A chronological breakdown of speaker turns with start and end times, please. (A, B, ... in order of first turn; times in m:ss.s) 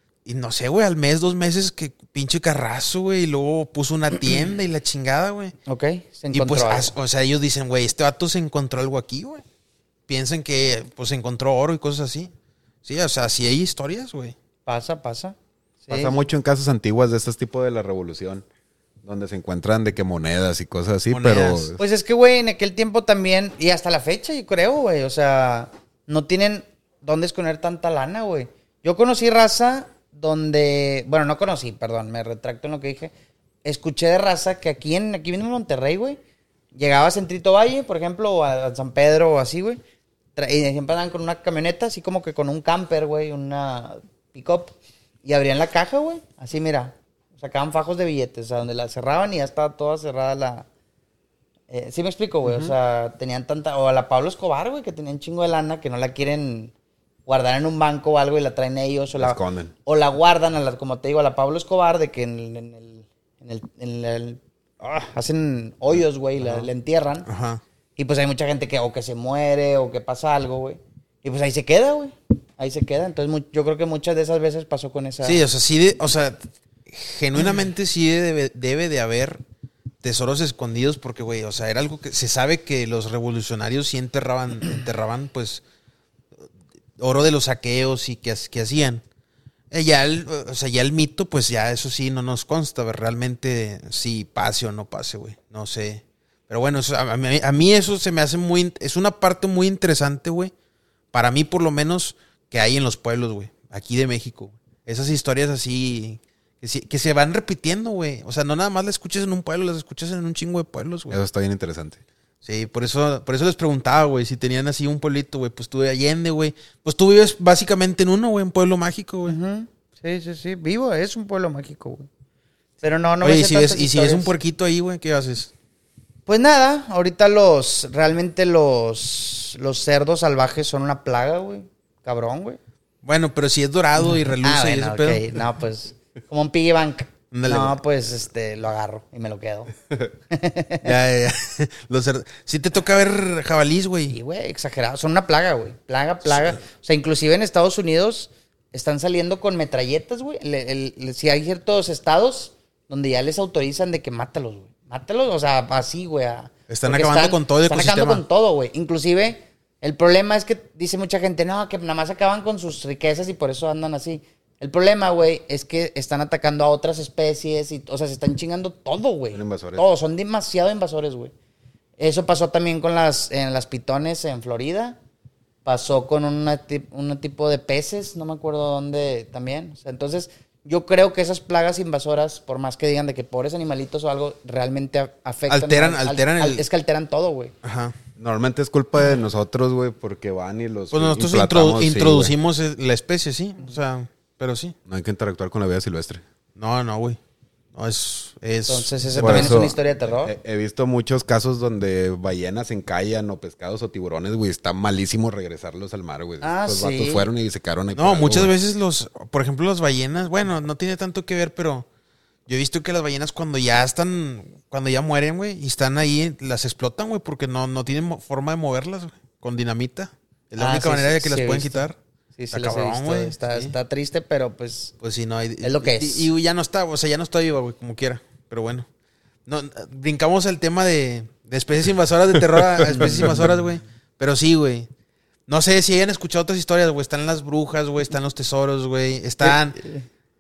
0:00.2-0:05.6 A
0:05.7-0:06.9 B
0:06.3-0:09.4 A
0:10.1-0:12.3 A
0:12.8-0:14.4 A
0:14.7-0:15.4 B
0:15.9-0:16.1 B
0:15.9-0:18.4 C
0:19.0-0:21.8 C
0:21.1-0:21.7 A
0:21.8-0:33.1 B
0:33.6-0:36.2 B
0:36.8-0:39.8 B
0:40.4-0:50.7 B
0:51.7-0:56.7 B
0:52.5-0:52.7 A
0:57.3-1:07.3 B
0:59.2-0:59.7 C
1:06.4-1:06.7 A
1:07.3-1:07.6 A
1:08.0-1:15.4 B
1:15.2-1:19.4 A
1:20.0-1:25.6 A
1:27.0-1:29.0 A
1:29.7-1:40.5 A
1:41.1-1:51.2 A
1:51.1-1:52.0 C
1:52.4-1:59.4 A
1:59.3-2:02.1 B
2:02.8-2:04.3 B
2:03.2-2:05.5 A
2:06.3-2:12.6 B
2:13.0-2:15.3 A
2:14.2-2:19.7 B
2:17.3-2:17.8 A
2:20.3-2:20.9 B
2:20.8-2:24.2 A
2:24.1-2:51.3 B
2:36.7-2:38.2 A
2:49.3-2:49.8 C
2:52.0-2:55.0 B
2:55.6-3:07.5 B
3:05.5-3:06.6 A
3:07.6-3:08.0 A
3:08.2-3:12.3 C
3:10.9-3:14.8 A
3:14.9-3:16.2 C
3:16.6-3:17.2 A
3:17.7-3:19.6 A
3:18.7-3:20.3 B
3:19.2-3:28.5 C
3:26.4-3:27.3 B
3:27.9-3:31.9 A
3:32.5-3:42.0 A
3:40.6-3:41.8 B
3:42.4-3:45.0 B
3:42.5-3:43.7 A
3:45.0-3:48.9 A
3:45.6-3:46.3 B
3:49.5-3:54.9 A
3:52.5-3:53.5 C
3:53.0-3:53.3 B
3:55.5-3:59.8 A
3:59.4-4:00.0 B